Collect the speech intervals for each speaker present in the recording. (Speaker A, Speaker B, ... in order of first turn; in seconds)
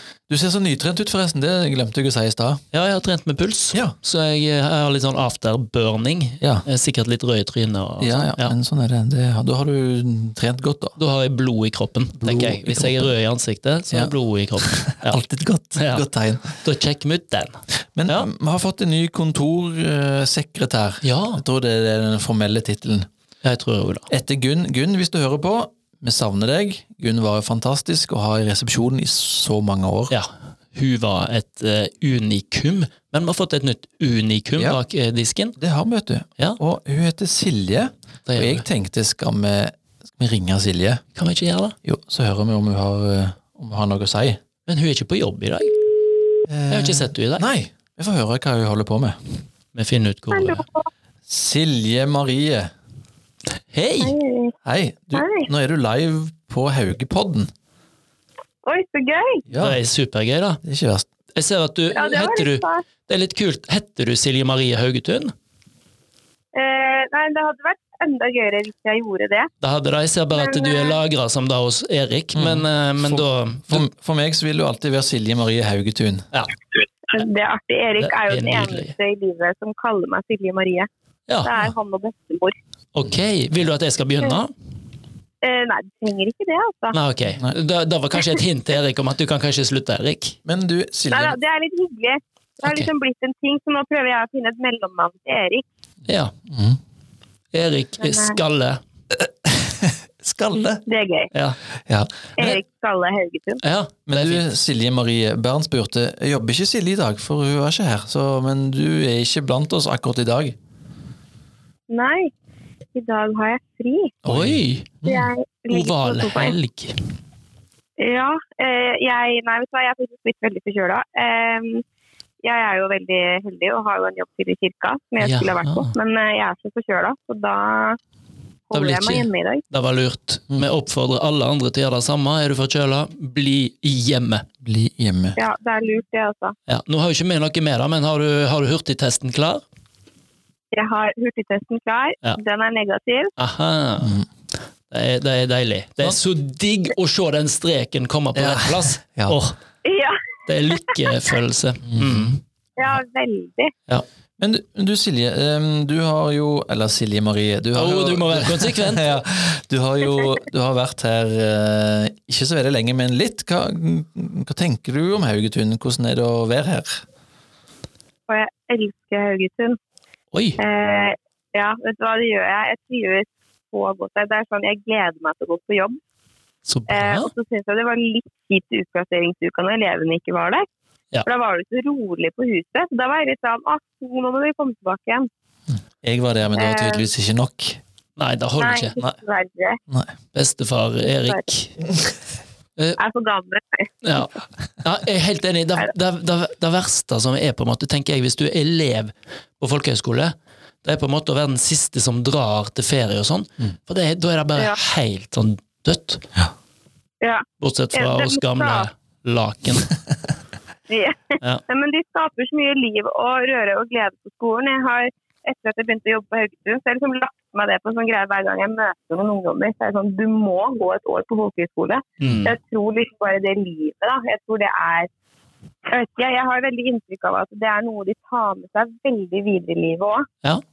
Speaker A: 0.3-2.6, 8.0-11.0, 12.2-13.1, 13.9-16.6, 17.9-23.1, 24.1-30.1, 35.6-41.0, 41.8-44.4, 46.5-49.2, 51.3-52.7, 54.6-57.5, 59.5-59.8, 60.6-61.1, 72.3-76.3, 90.5-91.4, 96.5-96.8, 99.1-100.8, 101.8-102.6, 104.1-110.6, 114.2-115.3, 134.6-135.4, 148.3-149.4, 151.9-152.4, 154.4-167.0, 186.0-187.8
Speaker B: 2.7-8.5, 11.0-15.2, 15.8-17.5, 21.0-21.4, 23.4-24.1, 30.1-35.6, 38.3-38.6, 41.1-41.7, 44.6-45.7, 46.7-47.4, 49.7-50.6, 53.7-54.1, 59.6-60.6, 61.3-65.3, 69.6-73.8, 78.0-78.9, 81.3-81.6, 82.9-84.5, 86.9-90.4, 92.6-92.9, 96.1-96.3, 97.5-98.8, 101.3-101.6, 103.6-104.5, 114.2-115.0, 115.7-117.0, 125.2-125.9, 128.7-134.4, 136.7-139.6, 143.4-144.2, 144.9-149.6, 150.5-152.4, 157.8-159.1, 170.3-170.6, 176.7-177.3, 188.2-188.9, 190.3-191.8, 194.0-206.3, 207.6-209.9, 222.2-222.5
Speaker C: 50.3-50.9, 54.0-54.5, 55.1-55.5, 58.6-59.4, 61.9-62.8, 66.5-69.5, 70.3-71.0, 77.1-80.9, 81.4-82.5, 85.4-87.0, 91.1-95.6, 98.0-98.4, 100.8-101.3, 102.4-103.6, 111.9-112.3, 112.9-114.1, 115.0-116.5, 118.0-121.8, 122.4-128.0, 128.7-129.6, 135.3-136.5, 140.7-143.3, 149.8-151.2, 152.8-153.7, 168.3-169.8, 170.6-176.0, 176.9-180.7, 181.2-185.3, 186.6-187.0, 188.6-189.8, 193.0-193.9, 207.2-208.9, 210.9-225.1, 225.8-230.3